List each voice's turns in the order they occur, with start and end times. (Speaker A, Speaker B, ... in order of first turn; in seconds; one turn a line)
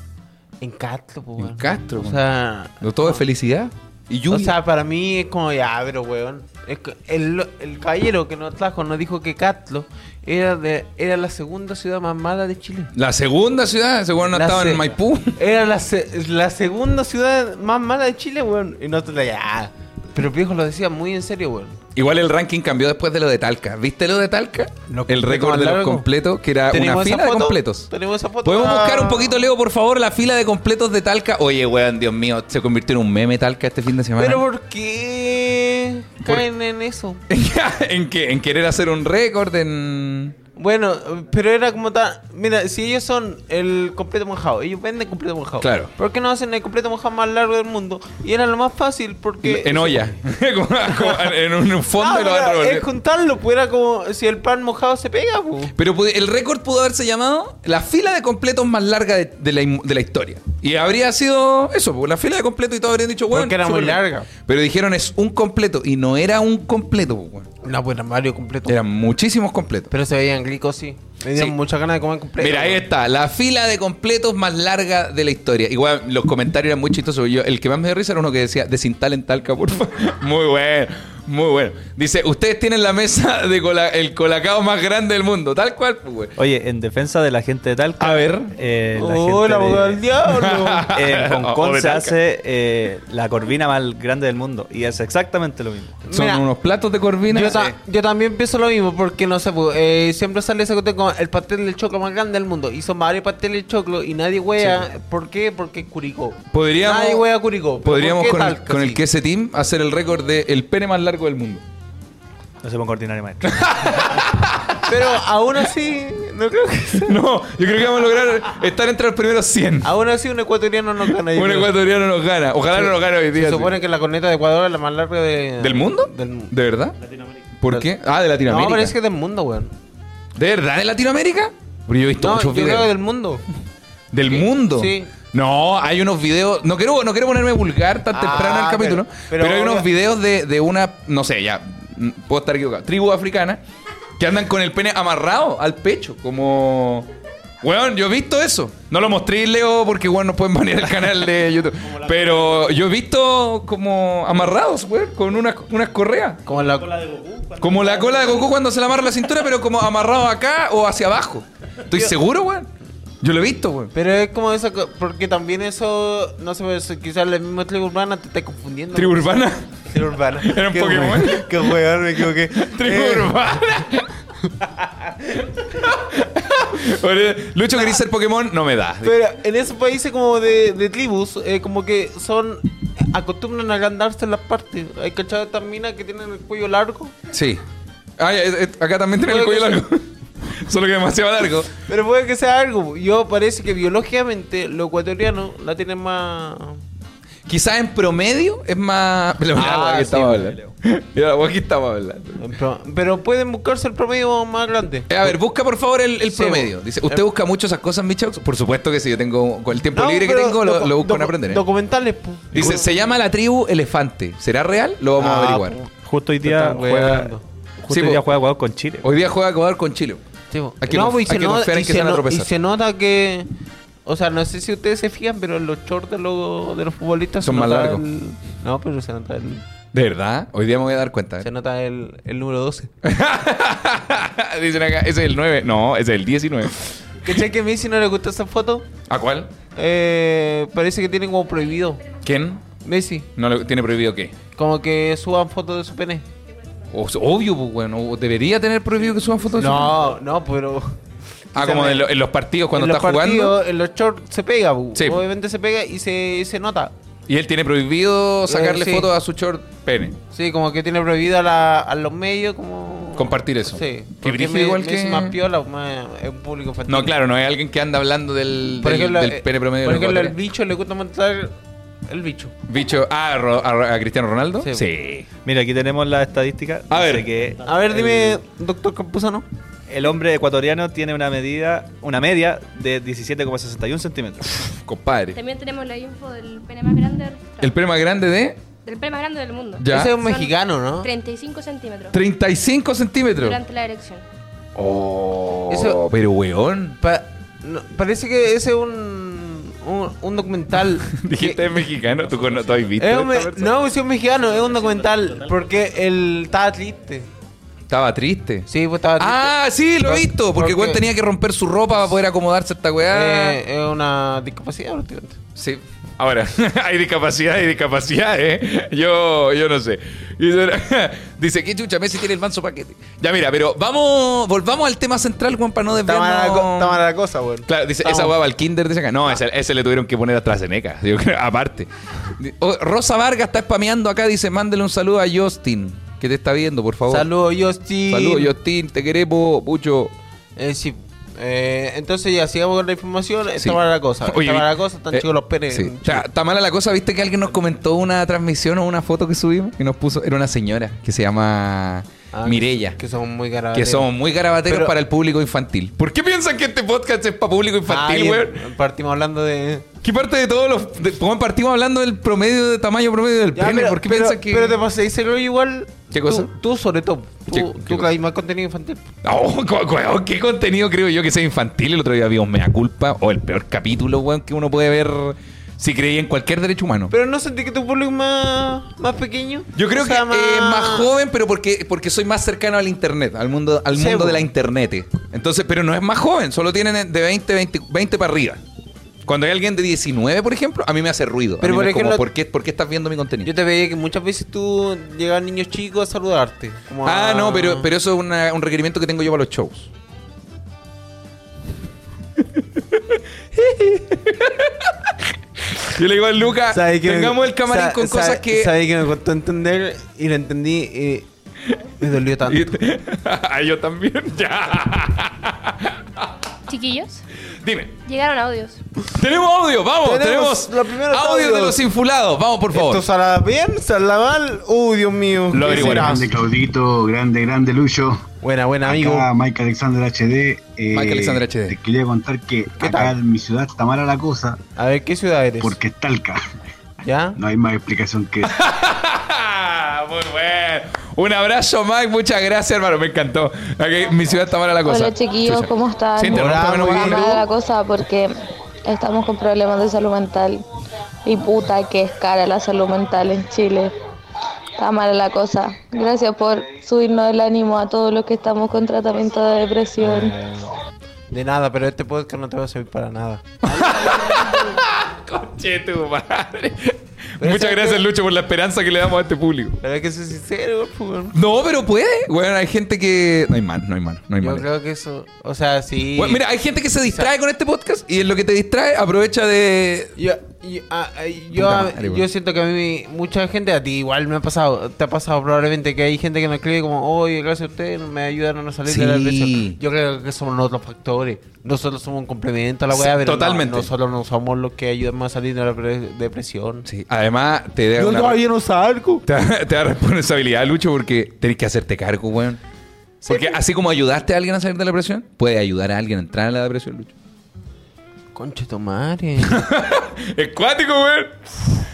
Speaker A: 0.6-3.2
Speaker B: 1.4-2.2
Speaker B: 2.8-4.5
Speaker A: 4.3-12.9
Speaker B: 12.9-15.4
Speaker A: 14.3-21.8
Speaker B: 21.9-27.9
Speaker A: 24.9-26.1
Speaker A: 26.7-29.5
Speaker B: 28.4-34.4
Speaker A: 34.2-37.2
Speaker B: 37.3-40.3
Speaker A: 40.5-50.1
Speaker B: 45.6-45.9
Speaker B: 49.4-52.9
Speaker A: 50.9-51.3
Speaker A: 52.0-55.7
Speaker B: 55.8-67.5
Speaker A: 63.3-64.3
Speaker A: 67.6-68.8
Speaker B: 68.6-69.9
Speaker A: 69.9-72.8
Speaker B: 72.4-86.3
Speaker C: 86.4-90.0
Speaker B: 88.0-88.5
Speaker A: 89.0-90.8
Speaker B: 90.3-92.2
Speaker C: 90.9-96.0
Speaker A: 96.0-96.4
Speaker B: 96.1-97.7
Speaker A: 97.3-109.0
Speaker C: 104.6-104.8
Speaker B: 106.5-107.3
Speaker B: 107.8-111.6
Speaker C: 112.6-114.0
Speaker B: 113.4-115.0
Speaker A: 114.8-117.2
Speaker B: 117.0-119.9
Speaker A: 119.8-121.7
Speaker B: 121.2-123.8
Speaker A: 122.7-126.5
Speaker B: 125.6-127.0
Speaker B: 127.6-128.9
Speaker A: 128.4-129.7
Speaker B: 130.3-132.9
Speaker A: 132.2-133.4
Speaker B: 134.1-143.6
Speaker A: 134.3-135.1
Speaker A: 138.1-139.9
Speaker B: 144.2-147.1
Speaker B: 147.6-156.4
Speaker A: 156.4-157.3
Speaker B: 157.6-162.7
Speaker A: 157.8-158.3
Speaker B: 163.2-163.9
Speaker A: 163.9-173.4
Speaker B: 168.9-169.7
Speaker B: 170.3-174.1
Speaker B: 175.5-179.2
Speaker A: 179.0-187.1
Speaker B: 187.3-187.6
Speaker B: 188.2-191.7
Speaker A: 189.2-189.8
Speaker A: 191.9-196.8
Speaker B: 197.5-202.4
Speaker A: 199.5-200.6
Speaker A: 202.4-205.3
Speaker B: 205.1-211.6
Speaker A: 206.3-207.2
Speaker A: 209.9-212.9
Speaker B: 212.5-215.8
Speaker A: 215.2-215.9
Speaker C: 216.0-217.3
Speaker A: 216.4-217.4
Speaker C: 217.8-219.1
Speaker B: 217.9-218.2
Speaker B: 219.0-220.2
Speaker A: 220.5-223.5
Speaker B: 220.8-222.5
Speaker A: 224.1-229.6
Speaker B: 227.4-228.0
Speaker B: 229.9-231.5
Speaker A: 231.4-232.9
Speaker B: 233.0-236.8
Speaker A: 237.2-238.8
Speaker B: 239.1-239.5
Speaker A: 239.7-242.0
Speaker B: 242.2-242.6
Speaker A: 242.8-243.3
Speaker B: 243.3-244.3
Speaker A: 244.5-246.2
Speaker B: 246.9-250.1
Speaker A: 249.6-250.9
Speaker A: 251.5-252.1
Speaker B: 251.5-253.6
Speaker A: 252.7-256.9
Speaker B: 254.9-255.2
Speaker B: 257.3-260.2
Speaker A: 258.5-259.1
Speaker A: 260.3-267.1
Speaker B: 263.1-265.4
Speaker B: 266.9-270.3
Speaker A: 268.8-271.5
Speaker A: 272.1-272.5
Speaker B: 272.7-275.2
Speaker C: 275.4-278.4
Speaker B: 276.9-277.3
Speaker A: 277.6-279.4
Speaker C: 279.9-284.6
Speaker B: 284.7-285.4
Speaker D: 285.3-287.7
Speaker B: 287.6-288.6
Speaker D: 288.8-292.2
Speaker B: 289.8-290.1
Speaker A: 289.9-291.1
Speaker B: 292.1-293.6
Speaker D: 293.4-294.2
Speaker B: 294.8-297.0
Speaker A: 295.7-296.0
Speaker A: 297.0-301.6
Speaker B: 301.1-303.8
Speaker A: 303.0-307.2
Speaker B: 307.9-313.6
Speaker A: 308.7-311.0
Speaker A: 313.1-315.4
Speaker B: 315.6-327.0
Speaker A: 326.0-328.3
Speaker B: 327.6-337.3
Speaker A: 337.1-338.5
Speaker B: 338.1-340.1
Speaker A: 340.6-346.2
Speaker B: 343.6-353.0
Speaker A: 352.3-354.1
Speaker B: 353.7-358.6
Speaker A: 354.6-354.9
Speaker A: 357.9-359.9
Speaker B: 360.0-364.8
Speaker A: 363.5-369.1
Speaker B: 366.1-366.5
Speaker B: 367.5-368.1
Speaker B: 369.2-377.1
Speaker A: 377.1-381.1
Speaker B: 379.7-388.6
Speaker A: 383.9-384.5
Speaker B: 389.2-393.5
Speaker A: 391.6-392.2
Speaker A: 393.4-397.9
Speaker B: 397.0-399.9
Speaker B: 402.6-405.1
Speaker B: 405.7-408.7
Speaker A: 406.7-411.2
Speaker A: 412.0-412.7
Speaker B: 412.4-416.3
Speaker D: 416.7-417.2
Speaker B: 417.6-418.0
Speaker D: 418.0-418.8
Speaker B: 419.1-423.0
Speaker A: 420.0-421.8
Speaker A: 422.7-426.3
Speaker B: 425.5-426.3
Speaker E: 425.6-428.2
Speaker A: 428.4-429.3
Speaker E: 428.8-434.6
Speaker B: 430.9-431.8
Speaker A: 432.8-433.1
Speaker A: 434.8-435.8
Speaker E: 435.6-436.4
Speaker A: 437.0-437.4
Speaker E: 437.4-438.5
Speaker B: 438.4-447.4
Speaker F: 444.8-448.3
Speaker A: 446.2-447.4
Speaker F: 448.9-450.6
Speaker F: 451.2-453.9
Speaker F: 454.8-460.3
Speaker A: 460.0-460.7
Speaker A: 461.3-464.6
Speaker B: 463.6-469.8
Speaker A: 467.4-468.0
Speaker A: 469.8-471.3
Speaker B: 471.3-474.6
Speaker A: 474.4-476.4
Speaker B: 476.1-480.1
Speaker A: 477.0-477.3
Speaker A: 480.2-496.8
Speaker B: 481.5-482.2
Speaker B: 488.9-489.8
Speaker B: 492.9-493.9
Speaker B: 496.8-498.4
Speaker A: 497.9-499.2
Speaker B: 499.2-502.6
Speaker B: 503.2-507.1
Speaker A: 503.3-503.6
Speaker A: 508.3-509.6
Speaker B: 509.4-511.5